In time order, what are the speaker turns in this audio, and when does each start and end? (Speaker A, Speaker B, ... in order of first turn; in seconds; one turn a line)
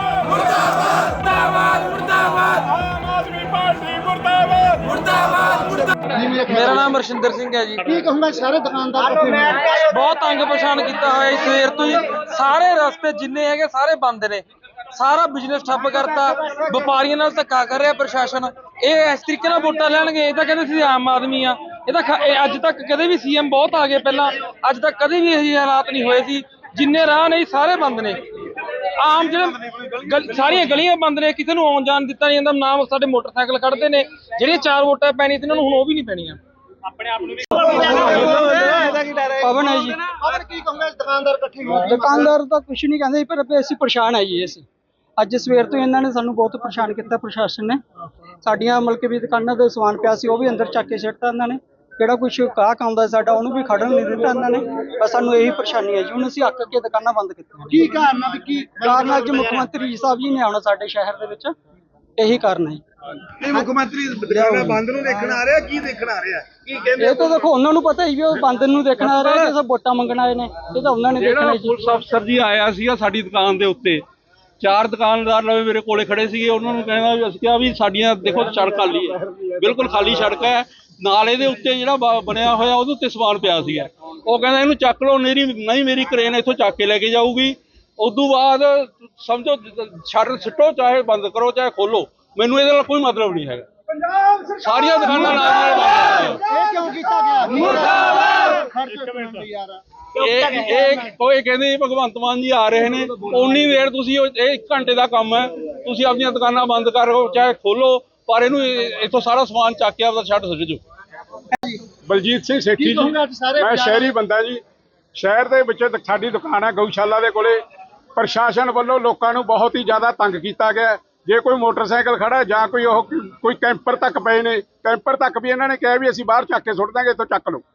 Speaker A: 1.1-8.0
Speaker B: 6.2-6.5
Speaker B: 7.9-9.7
Speaker A: 9.6-36.4
Speaker A: 36.9-39.0
Speaker C: 37.6-40.2
Speaker B: 40.2-42.0
Speaker C: 41.8-44.6
Speaker C: 45.2-47.8
Speaker C: 48.4-58.0
Speaker B: 57.8-59.3
Speaker C: 58.7-61.5
Speaker C: 62.2-62.8
Speaker D: 63.4-66.9
Speaker B: 63.5-65.4
Speaker C: 66.9-71.8
Speaker E: 71.2-74.0
Speaker E: 74.6-93.7
Speaker E: 94.3-96.4
Speaker B: 96.4-99.8
Speaker E: 100.1-110.8
Speaker B: 111.6-111.8
Speaker F: 112.0-114.6
Speaker B: 112.8-114.1
Speaker F: 115.1-117.6
Speaker F: 118.2-127.6